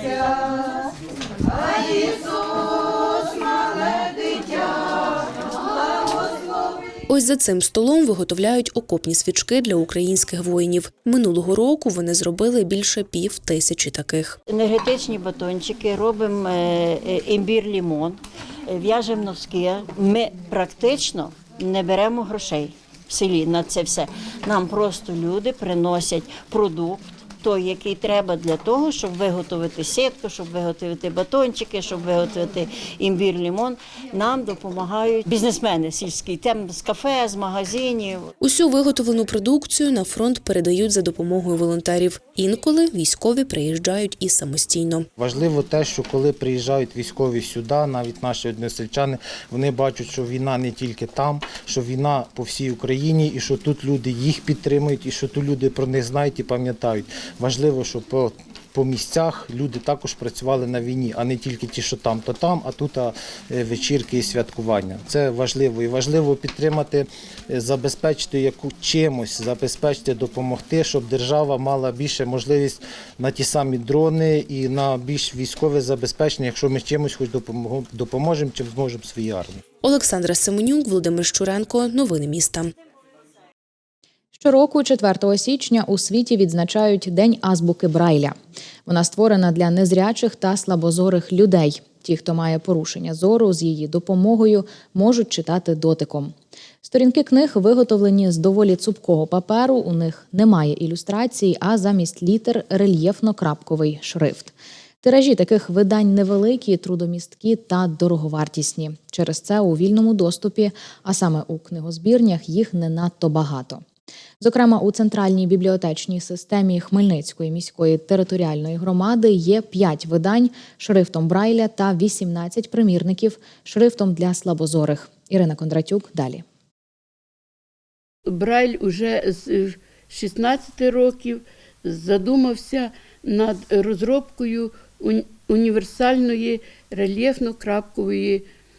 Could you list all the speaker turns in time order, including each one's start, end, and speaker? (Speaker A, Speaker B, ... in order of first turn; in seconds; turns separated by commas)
Speaker A: 7.1-14.4, Speaker B: 14.5-38.3, Speaker A: 38.4-45.1, Speaker C: 45.2-79.6, Speaker A: 79.8-82.7, Speaker D: 84.3-88.3, Speaker D: 88.8-113.8, Speaker D: 114.4-126.4, Speaker E: 128.3-138.4